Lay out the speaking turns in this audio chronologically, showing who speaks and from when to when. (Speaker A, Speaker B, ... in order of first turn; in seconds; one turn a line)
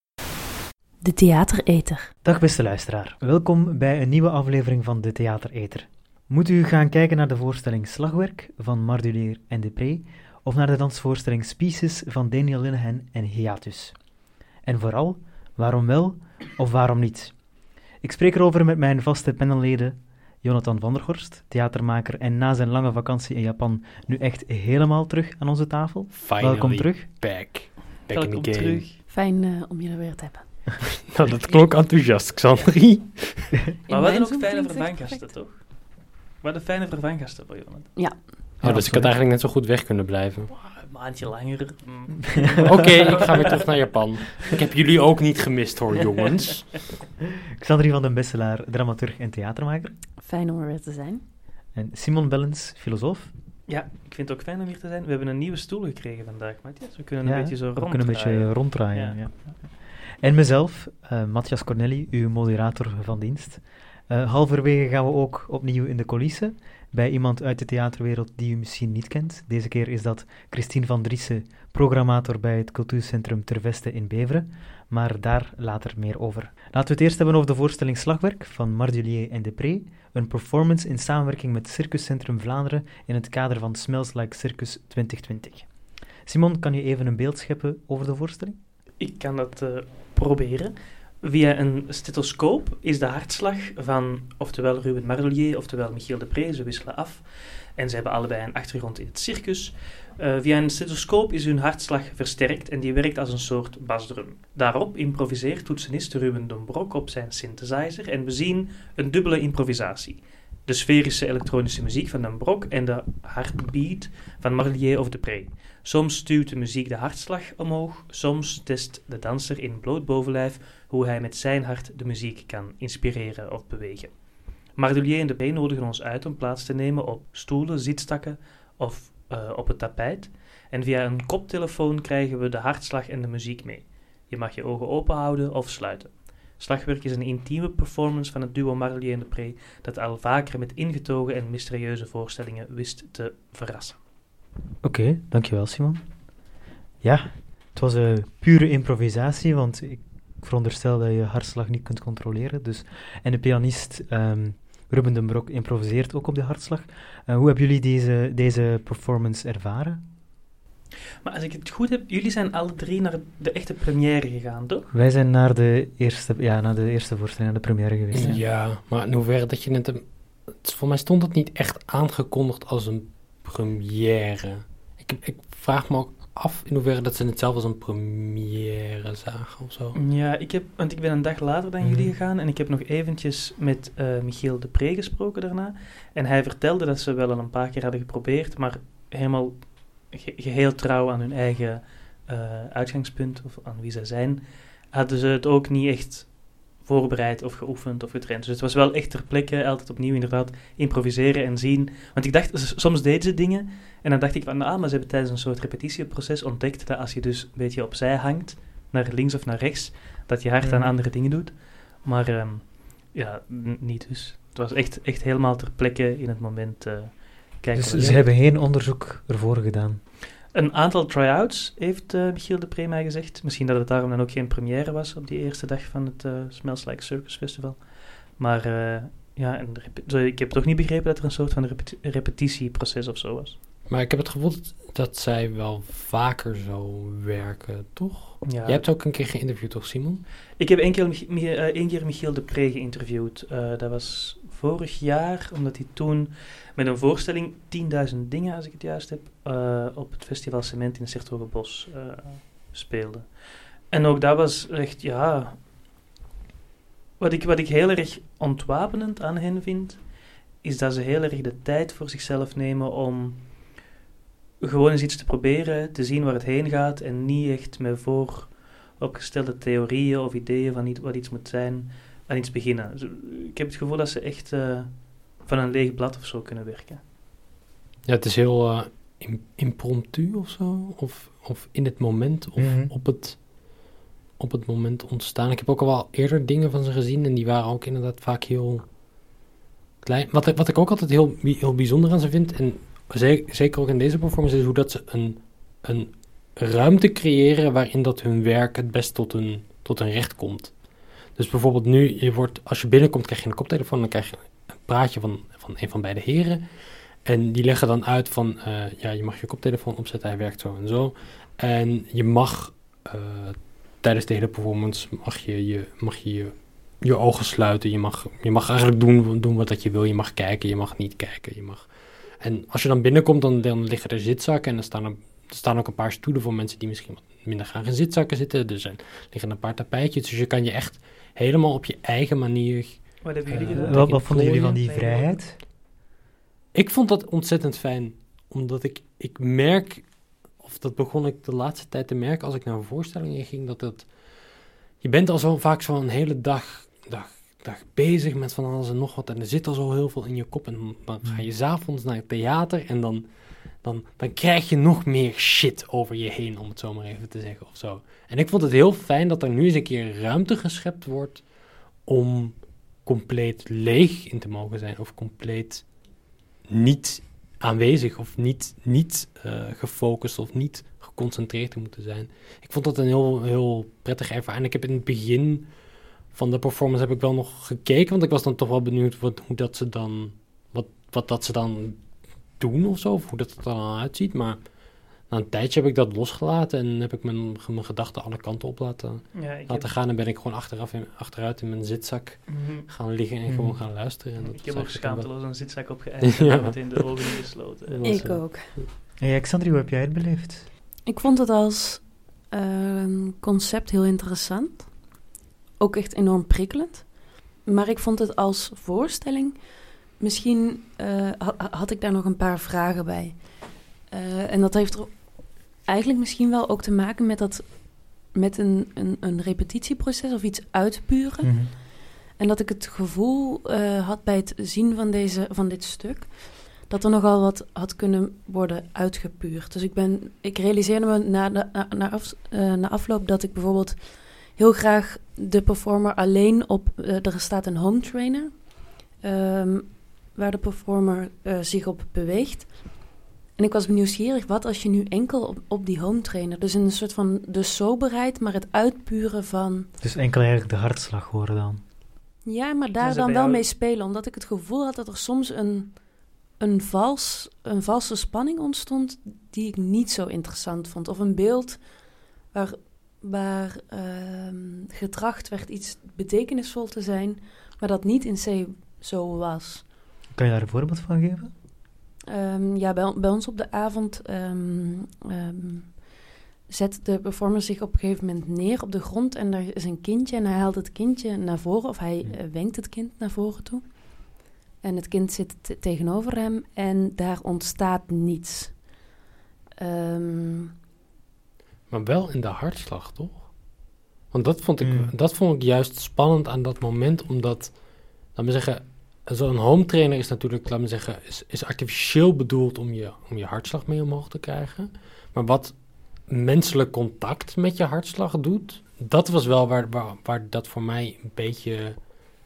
Speaker A: 1.0-2.1
Speaker B: 2.2-14.0
Speaker B: 14.6-17.4
Speaker B: 18.0-27.1
Speaker C: 26.1-28.9
Speaker D: 28.1-29.0
Speaker A: 29.1-30.7
Speaker C: 31.1-33.7
Speaker A: 33.9-35.3
Speaker D: 33.9-38.3
Speaker A: 38.0-38.4
Speaker C: 38.6-40.5
Speaker B: 38.6-39.1
Speaker D: 40.5-43.7
Speaker C: 42.6-46.7
Speaker B: 47.6-50.0
Speaker A: 50.2-51.2
Speaker B: 51.7-53.3
Speaker D: 53.7-59.6
Speaker B: 57.2-85.7
Speaker B: 86.2-88.6
Speaker D: 89.0-97.2
Speaker D: 97.8-124.2
Speaker D: 124.8-144.0
Speaker B: 144.8-146.0
Speaker B: 147.0-160.0
Speaker D: 161.2-164.9
Speaker B: 164.9-168.4
Speaker C: 168.1-180.0
Speaker D: 168.2-168.4
Speaker D: 179.9-218.3
Speaker B: 181.8-182.1
Speaker B: 210.6-210.9
Speaker B: 217.8-220.0
Speaker D: 220.5-233.6
Speaker C: 233.9-240.2
Speaker D: 238.4-238.8
Speaker D: 240.6-253.3
Speaker D: 253.9-255.6
Speaker D: 257.2-260.1
Speaker D: 260.6-263.4
Speaker D: 264.6-277.0
Speaker C: 278.1-283.4
Speaker B: 282.6-282.9
Speaker C: 284.4-288.9
Speaker C: 290.0-300.8
Speaker C: 301.3-306.7
Speaker C: 307.2-334.8
Speaker D: 333.2-335.4
Speaker B: 333.5-335.6
Speaker C: 336.7-344.2
Speaker C: 345.0-361.5
Speaker C: 362.0-365.9
Speaker C: 366.7-375.7
Speaker C: 376.3-384.7
Speaker C: 385.2-395.3
Speaker D: 389.3-389.9
Speaker D: 392.5-392.9
Speaker B: 393.5-393.9
Speaker D: 394.4-398.4
Speaker C: 396.2-397.1
Speaker C: 397.9-398.9
Speaker A: 398.0-398.7
Speaker B: 399.2-400.7
Speaker A: 401.1-405.2
Speaker A: 405.8-421.8
Speaker B: 421.4-421.7
Speaker A: 422.4-449.9
Speaker B: 450.0-451.8
Speaker A: 452.4-469.9
Speaker D: 453.0-453.6
Speaker B: 470.3-471.5
Speaker A: 472.3-476.2
Speaker A: 476.7-488.9
Speaker A: 489.8-490.7
Speaker C: 491.9-493.6
Speaker C: 494.3-512.1
Speaker B: 494.8-495.1